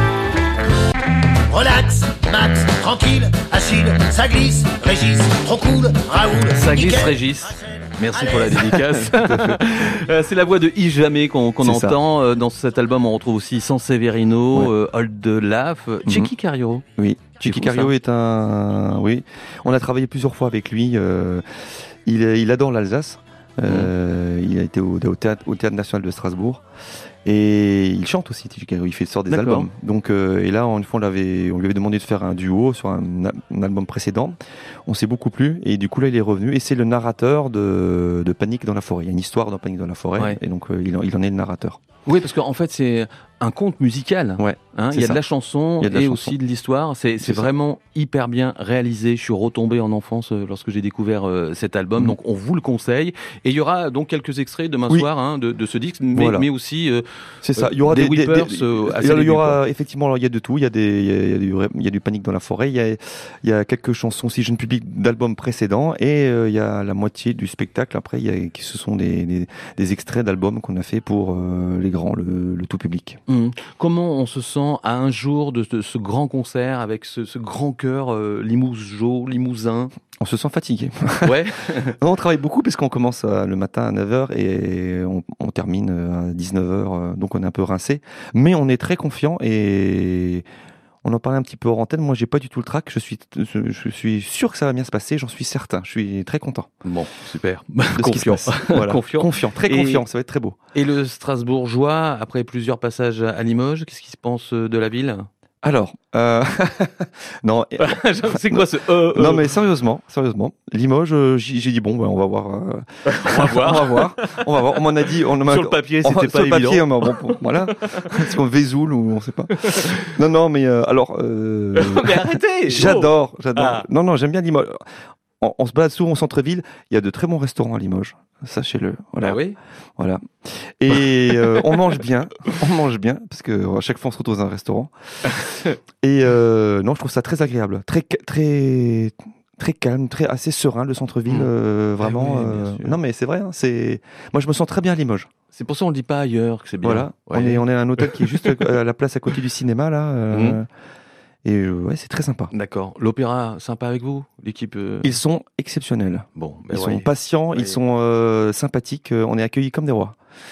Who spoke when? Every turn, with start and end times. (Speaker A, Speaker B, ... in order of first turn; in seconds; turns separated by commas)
Speaker A: 1.5-7.1, Speaker B: 6.5-16.8, Speaker A: 8.2-8.5, Speaker C: 9.0-9.6, Speaker C: 11.6-12.0, Speaker C: 16.0-16.3, Speaker C: 17.0-21.4, Speaker B: 17.4-17.9, Speaker C: 22.0-26.6, Speaker B: 23.6-23.9, Speaker C: 27.2-41.8, Speaker B: 29.3-29.7, Speaker B: 42.0-57.0, Speaker C: 44.4-45.2, Speaker C: 45.8-46.4, Speaker C: 47.2-47.5, Speaker C: 56.1-56.5, Speaker C: 57.4-73.2, Speaker B: 57.6-59.6, Speaker B: 73.3-79.9, Speaker C: 80.2-90.4, Speaker B: 81.2-81.9, Speaker C: 91.0-96.7, Speaker B: 96.8-100.0, Speaker C: 98.0-100.5, Speaker B: 100.7-105.3, Speaker C: 105.6-124.8, Speaker B: 107.8-109.5, Speaker B: 113.0-118.3, Speaker B: 119.5-120.2, Speaker B: 121.7-123.8, Speaker C: 125.4-129.4, Speaker B: 129.2-129.6, Speaker C: 130.0-135.4, Speaker B: 131.3-131.8, Speaker B: 135.3-135.7, Speaker C: 136.0-145.3, Speaker B: 141.3-143.0, Speaker B: 145.5-148.7, Speaker C: 146.8-150.7, Speaker B: 150.3-150.6, Speaker C: 151.4-152.5, Speaker B: 152.5-155.1, Speaker C: 155.0-160.2, Speaker B: 156.3-157.8